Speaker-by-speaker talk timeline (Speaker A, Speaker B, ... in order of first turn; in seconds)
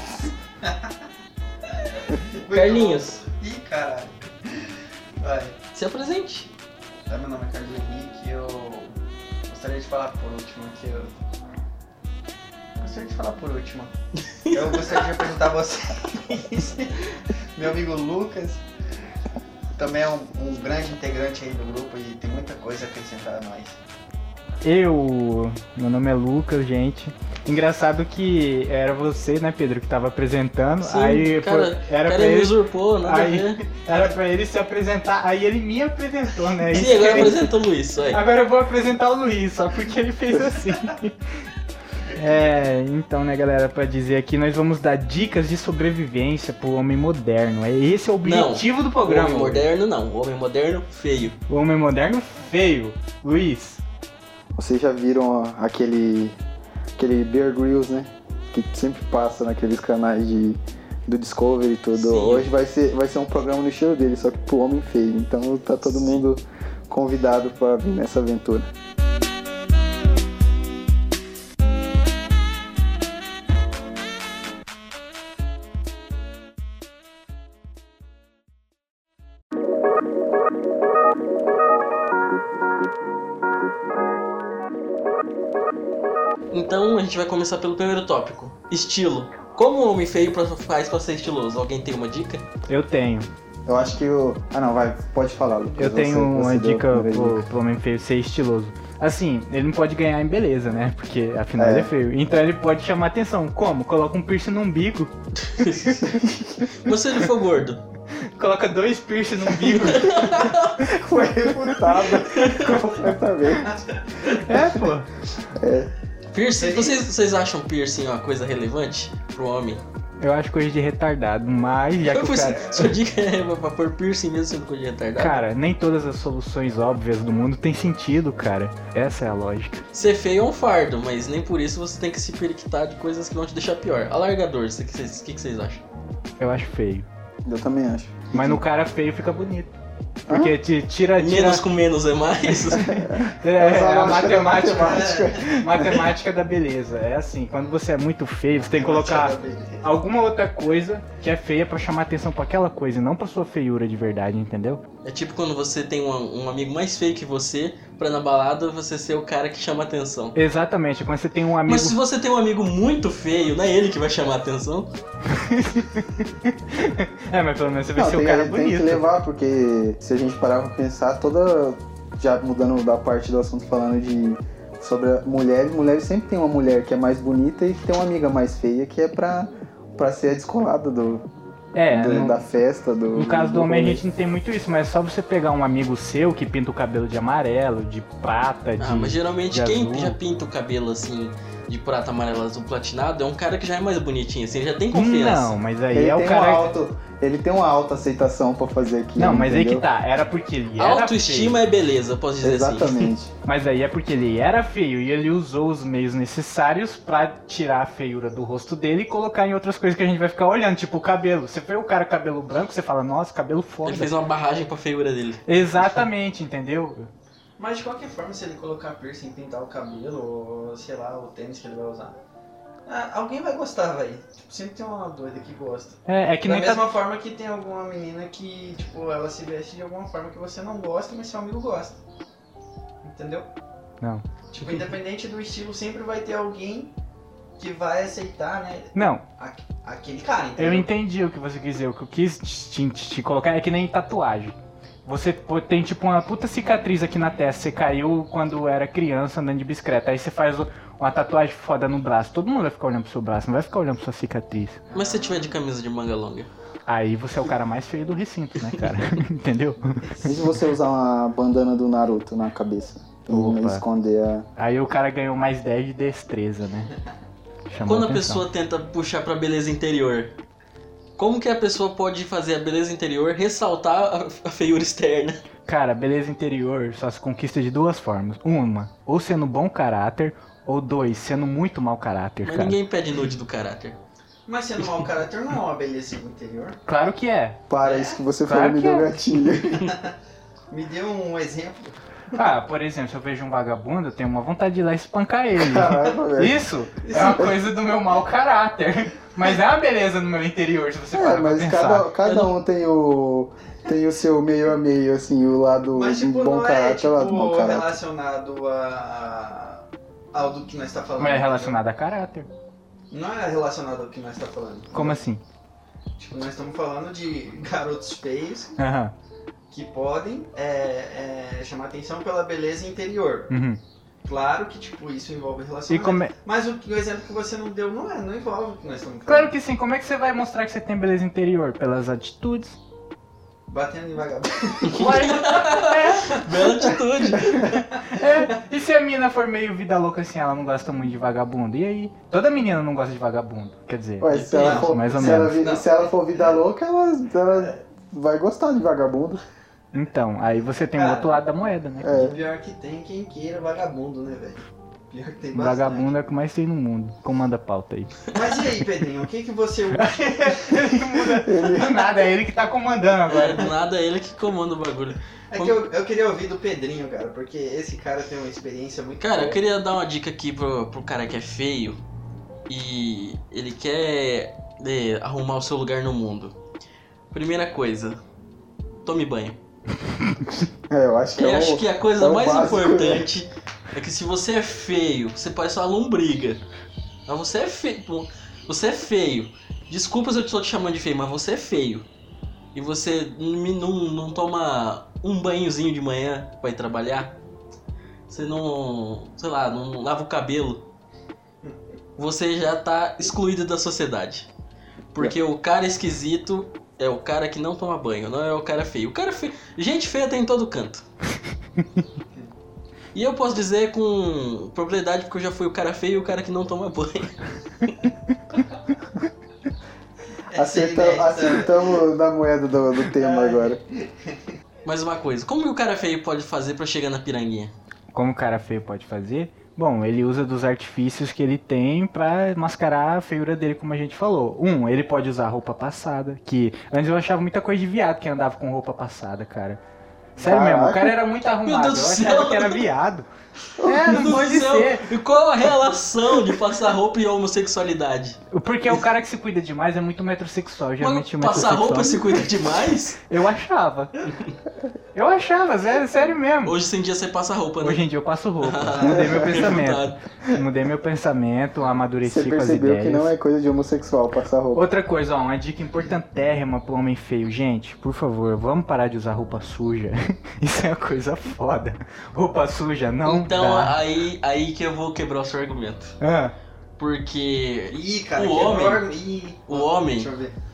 Speaker A: 0.6-0.9, 1.7-5.6, 7.1-8.9, 9.5-11.1, 12.8-13.9, 14.5-18.6, 19.8-23.8, 113.6-114.8, 116.6-117.0, 144.5-145.8, 148.6-149.9, 217.6-222.2, 222.9-232.0, 233.0-233.5, 234.5-236.9, 237.6-240.9, 254.9-255.6, 259.9-260.4, 284.5-286.8, 287.8-288.2, 289.7-290.1, 290.7-292.4, 297.0-297.5, 305.9-311.8, 313.1-315.2, 316.2-318.8, 319.7-323.5, 324.2-329.5, 333.7-335.2, 337.6-338.5, 344.6-346.1, 350.9-351.4, 352.0-356.1, 358.3-361.3, 365.5-369.6, 420.5-421.9, 423.0-424.4, 477.9-480.6
Speaker B: 2.5-3.2, 5.7-6.5, 14.4-15.0, 30.8-33.6, 36.7-38.2, 48.2-51.4, 62.0-62.5, 65.9-66.2, 86.5-92.5, 105.4-107.8, 109.7-110.8, 112.3-112.7, 116.3-119.8, 122.0-125.4, 129.9-135.8, 141.2-143.0, 155.1-160.4, 161.7-164.9, 188.8-195.6, 200.8-203.1, 213.8-216.0, 254.9-256.5, 267.9-270.3, 271.2-275.4, 282.4-284.0, 302.2-302.5, 334.9-337.7, 344.3-344.8, 363.3-365.8, 369.2-372.0, 372.7-376.6, 377.3-378.2, 379.1-379.6, 381.4-386.6, 387.3-392.1, 392.7-397.4, 398.3-400.9, 402.2-404.5, 405.1-411.0, 413.1-417.9, 424.9-427.7, 441.6-442.9, 444.1-448.4, 451.0-453.2, 456.6-458.1, 458.6-460.2, 473.3-476.2, 477.0-479.1, 479.7-480.3
Speaker C: 24.6-37.4, 38.1-41.1, 42.1-49.6, 51.5-53.8, 92.7-93.3, 95.8-106.2, 108.4-110.6, 112.7-113.1, 114.4-115.1, 120.2-122.9, 125.2-129.8, 136.4-137.1, 138.3-139.7, 140.3-141.6, 142.4-154.8, 160.3-161.9, 165.3-169.1, 181.8-182.5, 183.1-190.2, 194.9-196.7, 199.2-201.6, 203.5-214.2, 215.5-217.1, 226.1-226.9, 238.9-239.2, 240.6-244.6, 245.1-254.8, 256.9-260.0, 263.3-263.9, 264.6-266.9, 267.7-268.4, 275.7-282.8, 286.9-287.6, 288.4-289.3, 292.4-302.1, 311.2-312.5, 314.9-315.4, 318.8-319.1, 323.5-323.8, 325.9-326.3, 329.3-332.8, 334.9-336.7, 337.6-345.6, 349.9-352.3, 355.5-358.1, 360.0-363.7, 428.1-439.8, 440.4-443.3, 443.8-445.1, 448.5-452.4, 453.3-454.1, 455.1-456.8, 457.8-463.3, 464.7-474.0, 476.2-476.6
Speaker D: 54.6-56.4, 57.0-68.7, 93.7-97.4, 101.6-101.9, 110.8-113.7, 115.5-115.9, 137.4-138.6, 140.3-140.6, 142.8-146.1, 168.0-181.3, 181.9-184.0, 195.9-199.8, 202.4-203.3, 260.2-264.5, 287.7-289.9, 295.6-296.6, 297.2-297.5, 301.1-308.0, 344.2-349.4, 352.0-352.4, 361.4-362.0, 380.9-383.3, 420.6-423.8, 440.4-441.2, 443.8-444.3, 459.1-459.6, 462.2-464.9